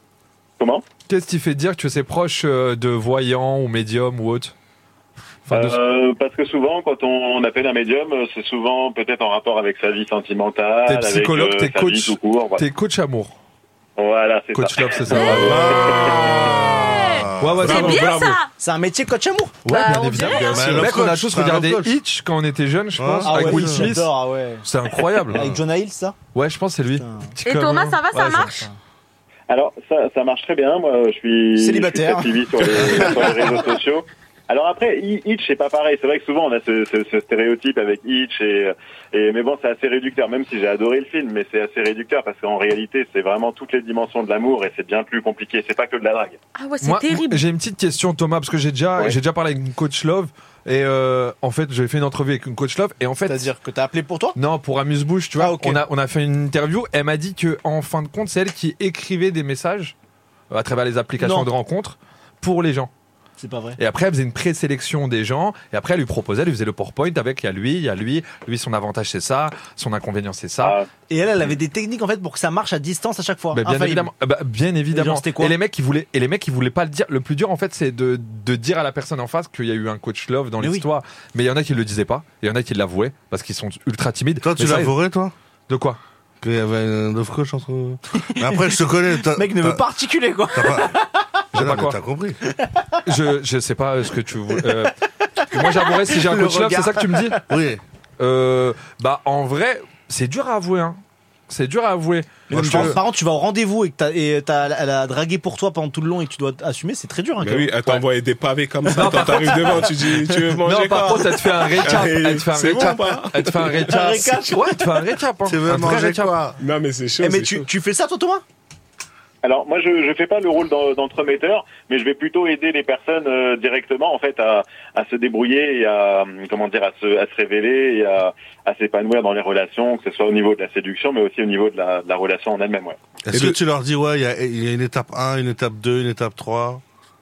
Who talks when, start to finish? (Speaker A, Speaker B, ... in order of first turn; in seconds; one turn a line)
Speaker A: 0.6-0.8
Speaker B: 1.1-4.5
Speaker B: 5.5-5.8
Speaker A: 5.5-12.6
Speaker B: 10.8-13.4
Speaker A: 14.0-15.9
Speaker B: 14.5-16.3
Speaker C: 15.0-18.5
Speaker D: 15.2-17.8
Speaker E: 15.6-16.7
Speaker B: 17.4-18.1
Speaker E: 17.6-18.4
Speaker F: 18.6-19.7
Speaker B: 19.6-24.1
Speaker C: 19.7-20.7
Speaker E: 20.2-20.9
Speaker D: 20.5-22.0
Speaker D: 22.9-23.9
Speaker F: 23.2-24.7
Speaker B: 24.6-25.5
Speaker F: 25.2-26.1
Speaker D: 25.3-25.6
Speaker B: 26.3-28.6
Speaker F: 27.0-27.3
Speaker C: 27.4-28.7
Speaker A: 29.5-46.4
Speaker F: 31.6-33.4
Speaker C: 46.5-47.4
Speaker B: 46.8-53.5
Speaker F: 53.2-54.4
Speaker B: 54.3-59.9
Speaker F: 55.4-55.8
Speaker B: 60.5-62.9
Speaker F: 61.2-61.5
Speaker F: 63.4-63.8
Speaker B: 63.8-70.8
Speaker A: 70.6-70.9
Speaker F: 71.1-74.1
Speaker B: 73.5-85.0
Speaker F: 74.9-75.5
Speaker F: 80.6-80.8
Speaker D: 84.4-85.3
Speaker B: 85.7-86.0
Speaker D: 86.4-89.8
Speaker F: 88.1-91.3
Speaker D: 90.5-91.0
Speaker B: 91.5-92.0
Speaker D: 91.5-92.4
Speaker F: 92.6-93.0
Speaker B: 93.0-94.9
Speaker B: 95.5-97.4
Speaker F: 95.5-97.4
Speaker D: 97.5-97.8
Speaker B: 98.2-103.0
Speaker D: 102.5-102.9
Speaker F: 102.5-108.0
Speaker E: 102.5-102.8
Speaker E: 107.4-114.3
Speaker B: 108.9-109.9
Speaker B: 110.6-116.4
Speaker F: 110.9-111.2
Speaker F: 113.7-114.9
Speaker D: 115.4-116.6
Speaker E: 116.6-117.7
Speaker F: 117.2-118.4
Speaker A: 119.4-133.0
Speaker D: 133.2-136.8